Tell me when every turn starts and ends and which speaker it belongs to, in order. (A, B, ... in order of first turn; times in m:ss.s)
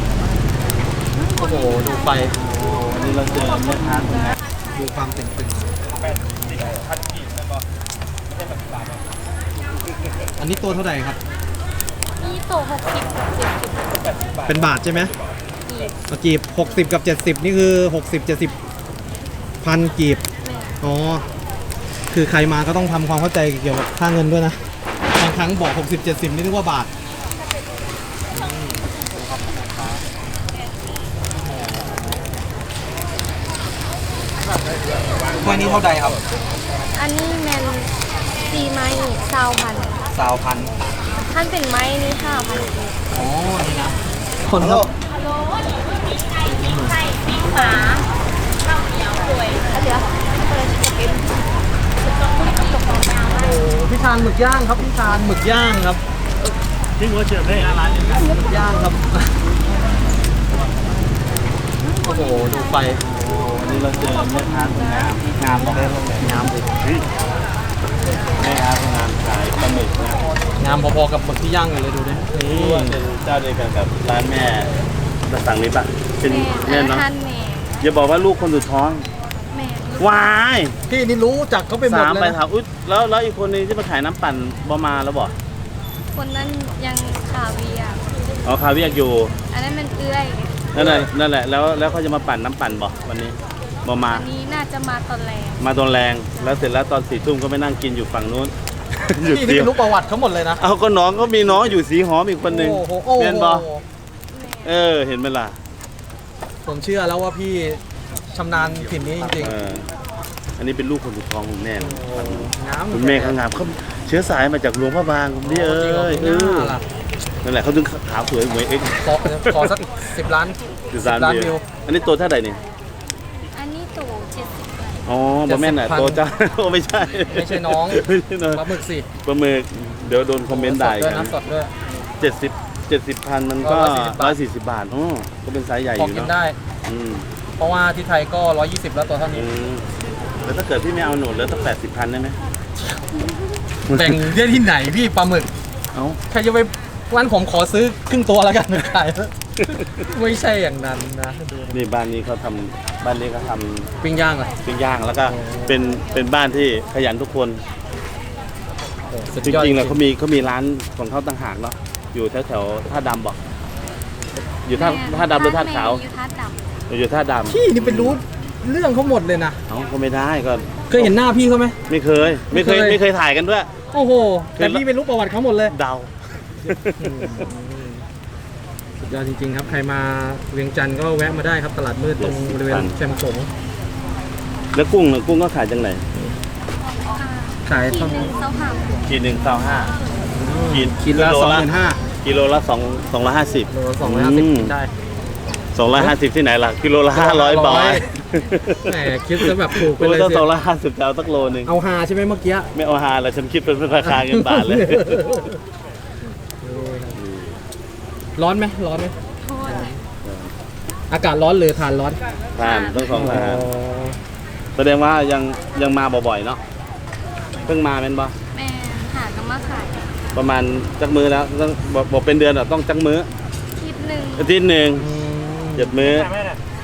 0:01.2-0:01.9 A
0:01.3-0:02.4 B
0:02.4-0:04.4 C
0:04.7-0:06.7 B
0:10.4-0:11.2 B
0:12.2-0:14.1 A
0:14.4-0:15.1 B
0:15.7-0:16.0 A
0:16.1-0:18.5 B
0:19.6-0:20.2 B
0:20.4-0:20.8 A
0:20.8-0:21.2 B
0:22.1-0:24.6 B
0:25.1-0:26.9 B
0:28.3-0:30.0 B
0:31.4-0:32.4 B
0:35.4-0:36.2 B
0:36.9-0:37.9 A
0:38.4-0:40.0 A
0:40.1-0:40.7 B
0:41.2-0:43.0 A
0:43.1-0:44.9 B
0:46.4-0:47.0 B
0:53.2-0:56.0 B
0:58.0-0:59.3 B
1:02.0-1:03.0 B
1:02.0-1:02.5 A
1:03.0-1:07.0 C
1:05.4-1:06.6 B
1:08.4-1:10.2 C
1:10.6-1:13.0 B
1:12.4-1:14.7 C
1:15.3-1:17.1 C
1:16.2-1:17.9 A
1:17.8-1:19.0 C
1:19.5-1:20.3 A
1:20.0-1:20.7 C
1:20.9-1:22.4 B
1:21.8-1:25.3 C
1:26.1-1:28.0 A
1:28.4-1:29.3 C
1:29.5-1:30.6 A
1:30.7-1:34.3 C
1:30.7-1:31.1 B
1:34.0-1:35.6 A
1:35.6-1:39.9 C
1:39.0-1:40.6 B
1:40.6-1:43.7 C
1:42.4-1:43.8 B
1:44.3-1:44.8 A
1:44.6-1:45.6 C
1:46.6-1:49.6 B
1:48.5-1:49.9 C
1:50.6-1:56.8 C
1:51.8-1:53.4 B
1:55.4-1:56.8 B
1:57.4-1:59.8 C
1:59.0-2:01.6 B
2:00.9-2:02.6 C
2:03.5-2:05.0 A
2:05.0-2:08.7 C
2:05.4-2:06.2 B
2:07.3-2:09.1 B
2:09.2-2:11.3 C
2:10.5-2:11.7 B
2:12.2-2:16.3 C
2:13.6-2:14.4 B
2:16.0-2:16.6 B
2:16.8-2:17.3 C
2:17.6-2:19.5 B
2:19.3-2:19.9 C
2:20.4-2:22.4 C
2:23.9-2:24.2 C
2:23.9-2:25.5 B
2:25.9-2:26.2 C
2:26.3-2:31.8 B
2:31.7-2:33.9 C
2:34.0-2:34.5 B
2:34.6-2:37.6 C
2:35.3-2:35.8 B
2:39.1-2:40.0 B
2:39.4-2:43.4 C
2:44.6-2:46.0 C
2:44.7-2:46.6 A
2:46.9-2:48.2 C
2:47.5-2:49.6 B
2:49.7-2:51.1 C
2:50.9-2:51.8 B
2:51.9-2:53.7 C
2:52.5-2:53.0 B
2:53.9-2:55.7 B
2:54.6-2:54.8 C
2:55.7-2:57.5 C
2:57.0-2:58.0 B
2:59.0-3:03.5 B
3:02.2-3:03.0 C
3:04.7-3:06.0 C
3:07.1-3:09.1 A
3:07.6-3:08.3 B
3:09.1-3:09.9 C
3:10.3-3:12.0 B
3:10.7-3:14.7 C
3:13.7-3:14.9 B
3:15.7-3:21.7 C
3:17.1-3:18.1 B
3:18.8-3:20.4 B
3:21.6-3:22.7 B
3:22.7-3:25.4 C
3:24.0-3:25.6 B
3:26.6-3:27.2 B
3:27.2-3:27.6 C
3:28.4-3:29.9 B
3:29.4-3:29.9 A
3:30.2-3:30.5 C
3:31.1-3:32.2 B
3:32.6-3:33.7 C
3:32.6-3:33.1 A
3:33.1-3:34.2 B
3:34.8-3:36.6 C
3:37.6-3:38.3 C
3:38.5-3:40.1 A
3:40.3-3:43.3 C
3:43.8-3:44.5 A
3:44.4-3:45.1 C
3:45.0-3:46.1 B
3:45.8-3:46.3 C